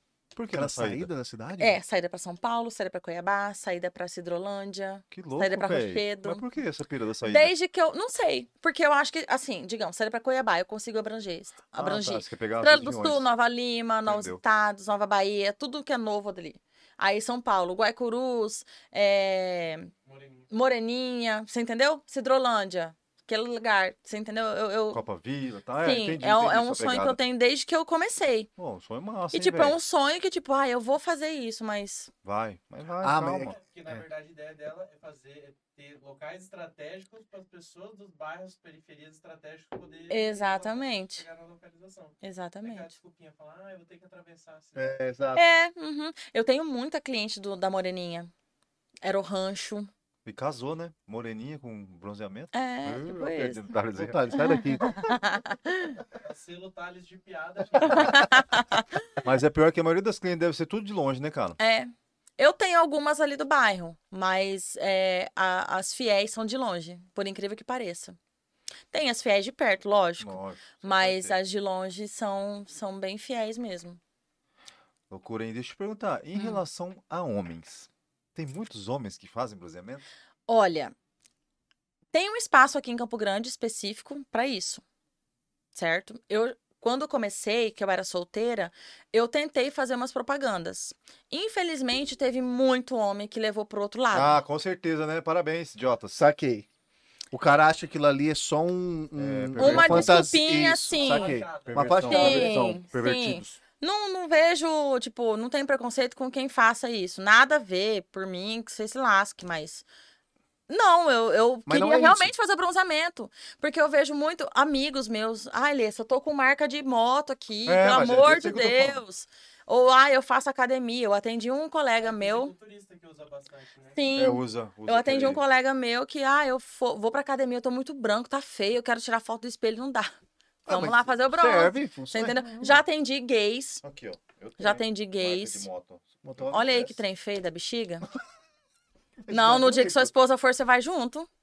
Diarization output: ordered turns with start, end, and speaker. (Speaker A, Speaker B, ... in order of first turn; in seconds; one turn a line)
Speaker A: 0.3-1.1
Speaker B: 0.5-1.8
Speaker C: 1.6-6.4
Speaker A: 5.1-7.5
Speaker C: 7.2-19.9
Speaker A: 11.8-13.3
Speaker A: 14.0-14.4
Speaker D: 20.1-20.5
Speaker C: 20.5-25.0
Speaker A: 24.9-27.2
Speaker C: 25.8-28.5
Speaker A: 28.6-29.8
Speaker C: 29.3-32.1
Speaker A: 32.2-34.0
Speaker B: 33.0-33.6
Speaker D: 33.5-45.0
Speaker C: 40.1-41.2
Speaker C: 42.2-42.9
Speaker B: 44.8-45.4
Speaker C: 45.4-48.3
Speaker C: 49.0-49.9
Speaker A: 50.2-54.3
Speaker C: 52.5-53.7
Speaker B: 53.9-55.1
Speaker C: 54.4-56.0
Speaker D: 56.2-58.5
Speaker C: 57.9-58.8
Speaker A: 59.2-61.6
Speaker C: 61.6-68.2
Speaker C: 68.9-74.0
Speaker A: 70.2-71.3
Speaker A: 75.1-80.0
Speaker C: 80.5-80.9
Speaker C: 82.1-84.8
Speaker C: 85.7-94.4
Speaker A: 94.1-96.2
Speaker B: 96.1-96.7
Speaker B: 97.3-102.8
Speaker A: 99.2-100.3
Speaker C: 99.6-101.4
Speaker D: 100.9-102.6
Speaker A: 101.6-103.6
Speaker C: 102.0-109.8
Speaker C: 110.7-122.5
Speaker B: 111.7-112.3
Speaker A: 117.7-119.0
Speaker D: 122.0-124.0
Speaker C: 123.9-130.1
Speaker A: 124.1-125.4
Speaker C: 130.7-133.8
Speaker B: 130.7-132.8
Speaker A: 133.8-136.9
Speaker C: 134.6-135.7
Speaker B: 136.2-137.0
Speaker C: 136.5-138.0
Speaker B: 139.2-140.1
Speaker C: 139.3-141.3